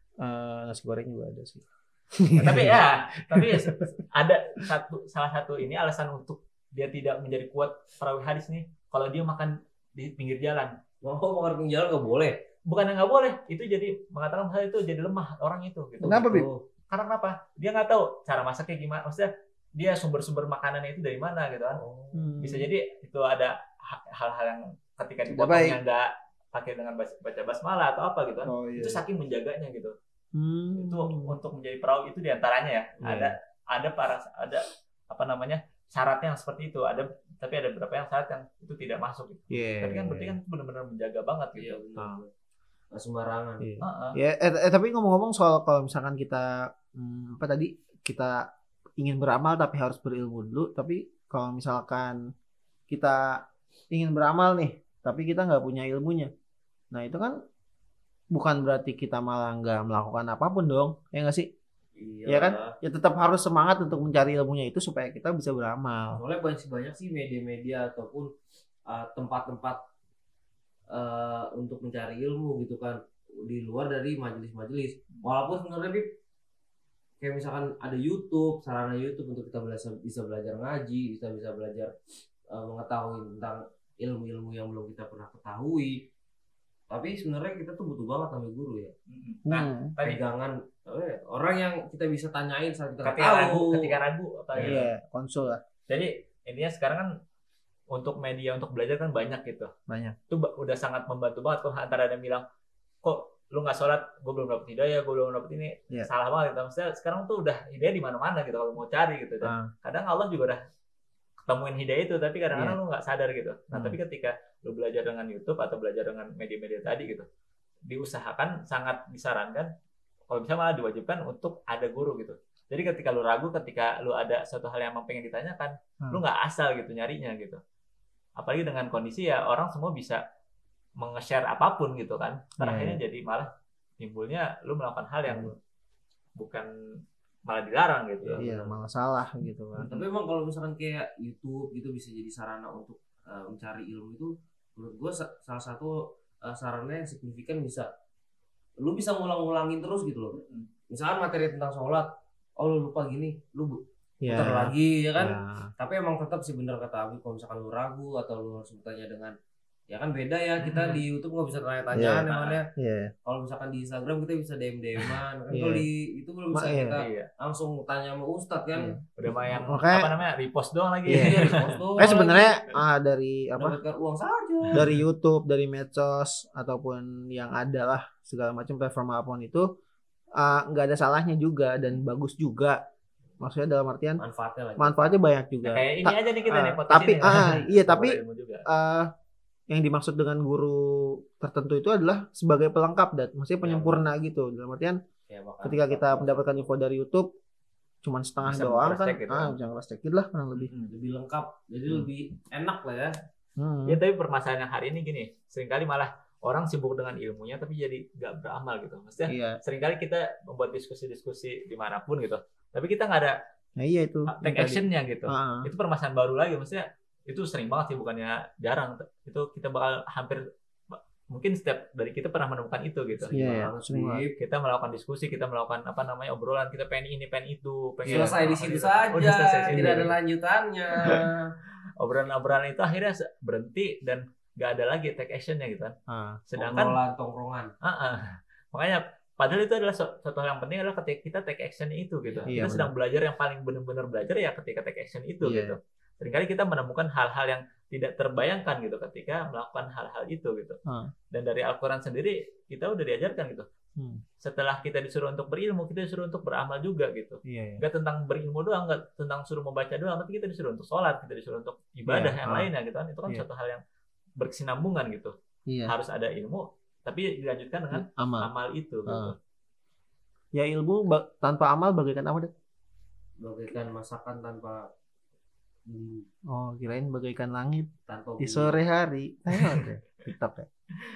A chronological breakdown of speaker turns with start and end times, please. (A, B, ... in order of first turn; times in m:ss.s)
0:00.2-0:03.9 A
0:02.3-0:10.7 B
0:11.0-0:12.4 C
0:12.7-0:16.3 B
0:16.0-0:16.6 C
0:16.0-0:16.5 A
0:16.9-0:21.8 B
0:21.8-0:22.3 C
0:22.1-0:22.7 A
0:22.4-0:29.9 B
0:25.3-0:25.8 A
0:28.5-0:29.0 A
0:30.4-0:31.4 A
0:30.8-0:41.9 B
0:33.0-0:33.4 A
0:39.5-0:40.4 A
0:41.6-0:42.3 C
0:42.9-0:43.7 C
0:43.6-0:48.5 A
0:43.8-0:44.2 B
0:49.0-0:52.2 A
0:52.9-0:53.4 A
0:53.9-0:56.3 A
0:56.9-0:57.4 A
0:58.3-1:01.5 A
1:02.0-1:02.8 C
1:02.3-1:06.2 A
1:06.2-1:08.3 C
1:08.9-1:09.8 C
1:10.9-1:16.1 C
1:17.2-1:21.9 C
1:22.5-1:26.0 C
1:26.9-1:29.0 C
1:29.1-1:30.2 B
1:29.5-1:30.0 A
1:30.0-1:34.0 C
1:33.0-1:34.9 B
1:34.6-1:34.8 C
1:34.6-1:35.6 A
1:35.9-1:37.1 B
1:37.9-1:39.7 B
1:39.9-1:40.2 A
1:40.3-1:42.4 B
1:43.0-1:50.6 B
1:49.4-1:49.7 A
1:51.4-1:57.3 B
1:52.5-1:52.8 A
1:53.7-1:54.0 A
1:57.9-1:59.7 B
2:00.3-2:07.6 B
2:08.4-2:10.2 B
2:11.0-2:15.6 B
2:12.6-2:13.0 A
2:15.3-2:15.6 A
2:16.4-2:16.7 B
2:17.5-2:18.4 B
2:18.2-2:18.7 C
2:18.4-2:20.0 A
2:19.8-2:27.9 C
2:28.8-2:32.1 C
2:32.6-2:39.4 C
2:34.2-2:35.7 A
2:39.9-2:42.7 C
2:40.6-2:41.0 B
2:41.9-2:43.1 A
2:42.3-2:42.6 B
2:43.2-2:49.0 C
2:45.5-2:45.9 A
2:46.5-2:47.0 A
2:47.0-2:47.3 B
2:49.2-2:51.8 B
2:49.5-2:50.1 A
2:51.1-2:51.4 A
2:51.1-2:52.6 C
2:52.0-2:53.8 A
2:53.6-2:54.9 C
2:54.8-2:59.7 A
3:00.4-3:02.8 A
3:03.4-3:04.2 A
3:04.2-3:05.1 C
3:04.8-3:09.1 A
3:05.6-3:08.7 B
3:09.7-3:15.0 A
3:13.6-3:14.0 C
3:15.3-3:16.8 C
3:15.6-3:17.3 A
3:18.0-3:20.7 A
3:18.4-3:19.6 B
3:20.6-3:20.9 B
3:20.9-3:23.2 C
3:23.6-3:24.0 A
3:23.9-3:33.4 B
3:29.3-3:29.6 A
3:33.8-3:35.7 A
3:34.3-3:43.4 B
3:43.2-3:44.4 C
3:43.3-3:44.2 A
3:44.4-3:50.1 B
3:48.1-3:48.7 A
3:48.1-3:51.6 C
3:49.7-3:50.1 A
3:52.0-3:56.0 B
3:56.1-3:56.4 A
3:56.5-3:57.0 B
3:56.6-3:57.7 C
3:57.8-4:10.8 B
4:02.3-4:02.6 C
4:02.5-4:02.9 A
4:05.4-4:05.8 A
4:10.9-4:11.1 A
4:11.3-4:13.7 B
4:14.0-4:14.2 A
4:14.4-4:23.8 B
4:17.5-4:17.8 A
4:22.1-4:22.7 A
4:24.4-4:25.3 B
4:25.7-4:25.9 A
4:25.9-4:29.4 B
4:27.9-4:28.5 A
4:29.1-4:29.4 A
4:30.5-4:32.5 A
4:33.4-4:34.9 C
4:35.9-4:36.3 C
4:36.5-4:40.7 A
4:38.1-4:38.8 C